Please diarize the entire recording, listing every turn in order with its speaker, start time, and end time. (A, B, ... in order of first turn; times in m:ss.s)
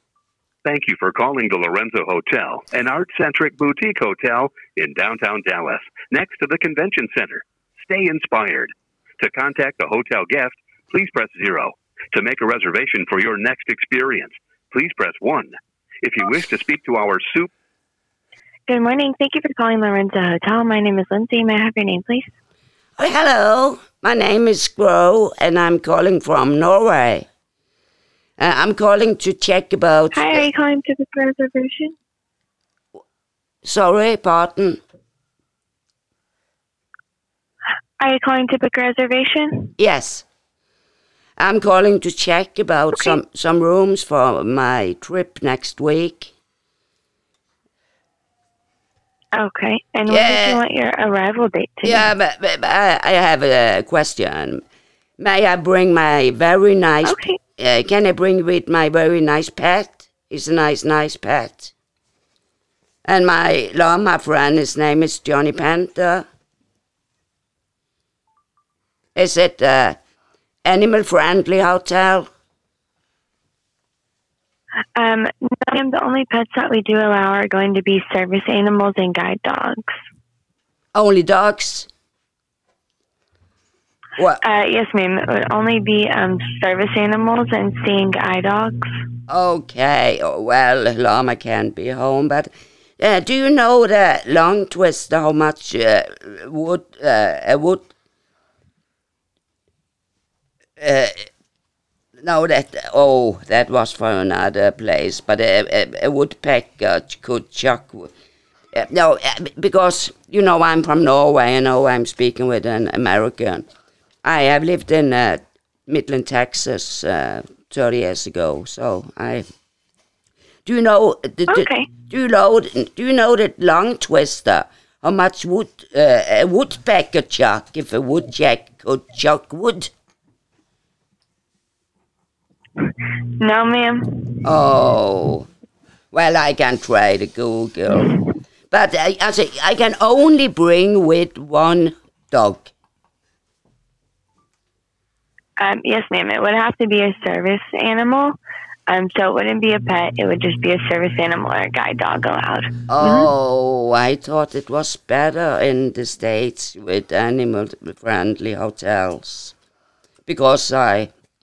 0:00.6-0:17.5 A
0:18.7-0:22.3 B
0:23.0-0:27.3 C
0:28.4-0:30.5 C
0:30.1-0:32.0 B
0:33.6-0:34.8 C
0:38.0-0:39.7 B
0:39.8-0:40.2 C
0:41.4-0:46.3 C
0:49.4-0:52.1 B
0:50.1-0:50.6 C
0:51.8-0:54.6 C
0:55.2-1:01.7 C
0:57.0-0:57.4 B
1:03.0-1:06.3 C
1:09.2-1:10.0 C
1:10.6-1:12.3 C
1:15.0-1:20.0 B
1:20.9-1:21.9 C
1:24.2-1:24.4 C
1:24.4-1:28.9 B
1:29.3-1:37.9 C
1:40.8-1:41.3 C
1:42.2-1:48.1 C
1:48.7-1:53.7 C
1:54.2-1:59.5 C
2:00.7-2:09.9 C
2:01.5-2:01.9 B
2:12.8-2:14.5 B
2:14.4-2:15.5 C
2:16.1-2:18.2 C
2:18.7-2:22.7 C
2:25.6-2:28.4 B
2:28.9-2:33.3 B
2:32.9-2:39.6 C
2:40.3-2:41.1 C